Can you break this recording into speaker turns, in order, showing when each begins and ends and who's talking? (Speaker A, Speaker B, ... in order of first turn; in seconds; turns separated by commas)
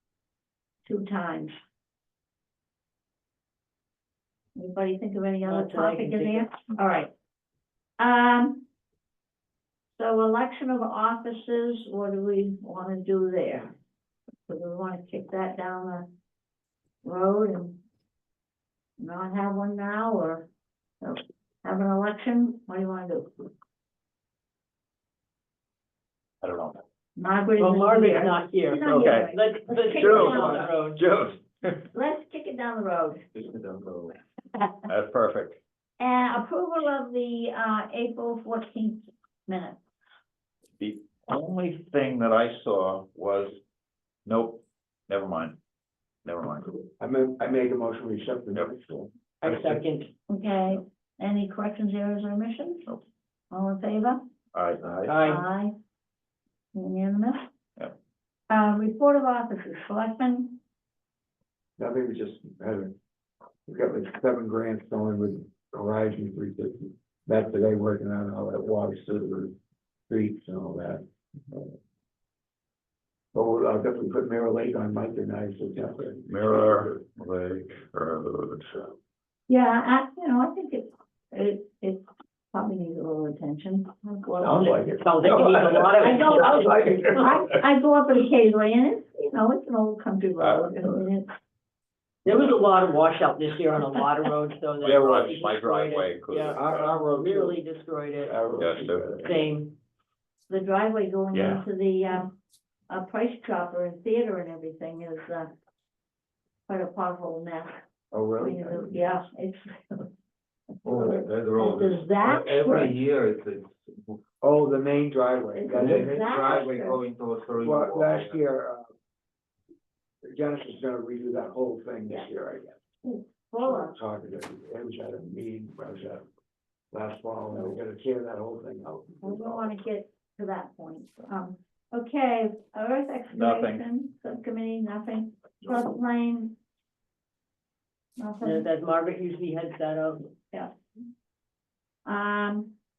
Speaker A: 0.9-1.6, Speaker A: 4.5-7.1, Speaker B: 5.5-6.5, Speaker A: 8.0-8.7, Speaker A: 9.9-13.7, Speaker A: 14.5-16.1, Speaker A: 17.0-17.8, Speaker A: 19.0-20.5, Speaker A: 21.0-23.5, Speaker C: 26.4-26.8, Speaker A: 27.2-30.7, Speaker B: 27.6-31.0, Speaker C: 29.0-29.3, Speaker D: 30.0-31.1, Speaker A: 31.9-33.2, Speaker D: 33.4-34.1, Speaker C: 34.9-35.6, Speaker A: 36.0-39.8, Speaker C: 40.8-43.6, Speaker C: 44.3-45.6, Speaker C: 46.2-46.8, Speaker E: 47.0-49.8, Speaker B: 49.4-50.1, Speaker A: 50.3-52.9, Speaker A: 53.5-54.2, Speaker C: 54.5-55.2, Speaker B: 55.1-55.5, Speaker A: 55.2-55.7, Speaker A: 56.7-57.5, Speaker A: 58.5-60.6, Speaker E: 61.8-63.0, Speaker E: 63.7-69.5, Speaker E: 70.1-71.7, Speaker E: 73.3-77.0, Speaker C: 76.3-78.8, Speaker A: 79.5-84.8, Speaker E: 84.4-87.6, Speaker B: 85.0-87.1, Speaker A: 86.0-91.3, Speaker C: 90.4-90.9, Speaker B: 92.2-98.6, Speaker C: 94.8-96.6, Speaker E: 96.5-97.6, Speaker E: 98.2-99.3, Speaker C: 98.6-99.4, Speaker B: 99.2-99.8, Speaker A: 100.5-102.3, Speaker C: 101.3-101.7, Speaker A: 102.9-105.5, Speaker A: 106.7-107.8, Speaker E: 108.1-109.0, Speaker A: 108.4-110.1, Speaker A: 110.8-113.0, Speaker D: 110.8-114.2, Speaker E: 114.4-116.2, Speaker A: 115.5-117.0, Speaker D: 115.7-118.4, Speaker E: 117.6-118.9, Speaker E: 120.2-122.8, Speaker A: 123.0-124.0, Speaker E: 123.7-126.2, Speaker E: 126.9-129.7, Speaker A: 129.2-136.6, Speaker C: 133.3-133.8, Speaker A: 138.2-138.7, Speaker B: 138.4-140.3, Speaker A: 142.1-142.7